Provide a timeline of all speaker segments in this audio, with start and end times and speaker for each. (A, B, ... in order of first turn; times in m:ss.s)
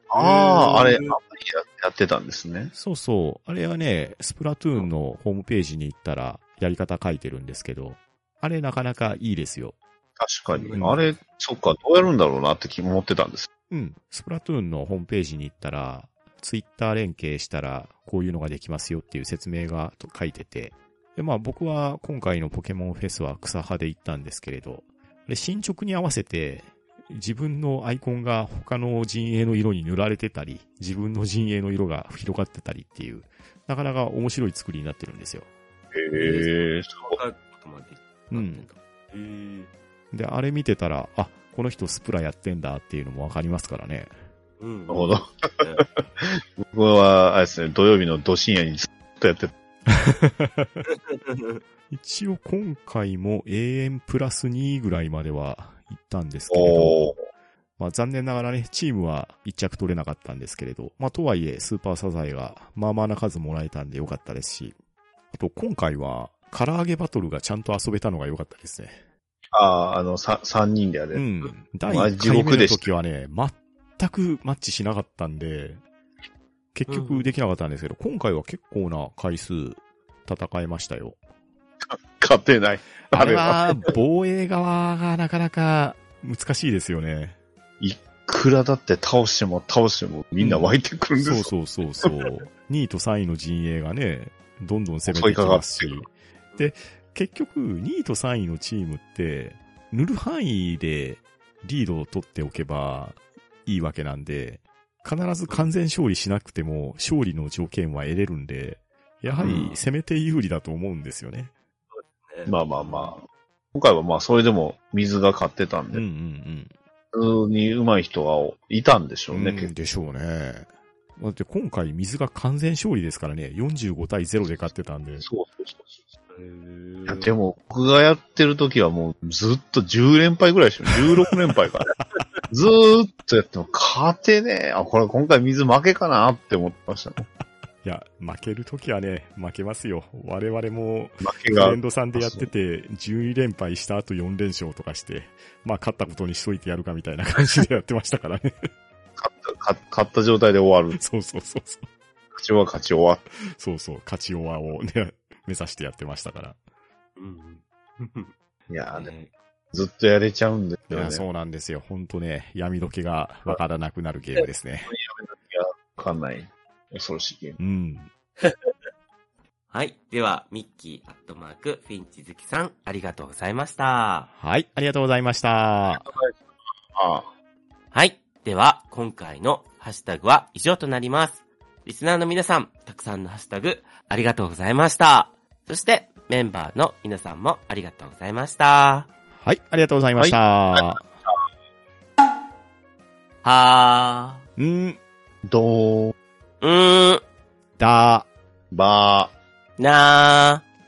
0:00.1-0:02.7 A
0:00.1-0:01.2 B
0:02.7-0:09.8 C
0:10.2-0:13.5 A
0:10.5-0:11.1 B
0:10.8-0:11.0 C
0:13.7-0:35.5 C
0:35.9-0:37.2 A
0:36.2-0:39.7 B
0:38.3-0:38.7 C
0:40.1-0:44.1 C
0:44.6-0:45.8 B
0:44.9-0:49.5 A
0:49.9-0:50.8 C
0:50.8-0:51.6 B
0:51.9-0:57.2 C
0:56.5-0:57.2 A
0:57.8-1:04.8 C
1:05.3-1:09.0 C
1:09.5-1:11.2 A
1:11.1-1:15.8 C
1:11.8-1:12.9 A
1:16.7-1:21.2 C
1:16.9-1:17.3 B
1:22.2-1:23.6 A
1:23.1-1:27.4 C
1:27.8-1:31.5 A
1:30.4-1:51.5 C
1:35.0-1:36.0 A
1:49.4-1:49.6 B
1:49.4-1:49.7 A
1:51.9-1:53.2 B
1:52.4-1:53.2 A
1:53.7-1:56.0 A
1:55.9-1:56.7 C
1:57.1-1:59.7 A
1:59.3-2:05.2 C
2:05.2-2:06.0 A
2:06.3-2:07.3 B
2:07.1-2:11.9 A
2:12.5-2:17.2 A
2:17.8-2:28.7 C
2:21.2-2:22.5 A
2:29.2-2:31.0 A
2:31.0-2:31.9 C
2:32.3-2:33.2 A
2:33.4-2:36.6 C
2:37.2-2:38.3 B
2:38.7-2:39.1 A
2:38.9-2:39.3 B
2:39.7-2:41.2 A
2:40.9-2:44.9 C
2:44.9-2:47.6 A
2:47.6-2:48.1 C
2:48.4-2:48.7 B
2:49.7-2:54.3 B
2:54.4-2:56.1 C
2:55.9-2:57.3 A
2:57.9-3:09.1 B
3:09.3-3:11.0 C
3:10.2-3:10.9 A
3:13.4-3:14.4 B
3:14.6-3:15.0 C
3:15.4-3:16.1 A
3:16.6-3:17.2 B
3:17.8-3:18.3 C
3:18.7-3:19.3 A
3:19.8-3:20.6 B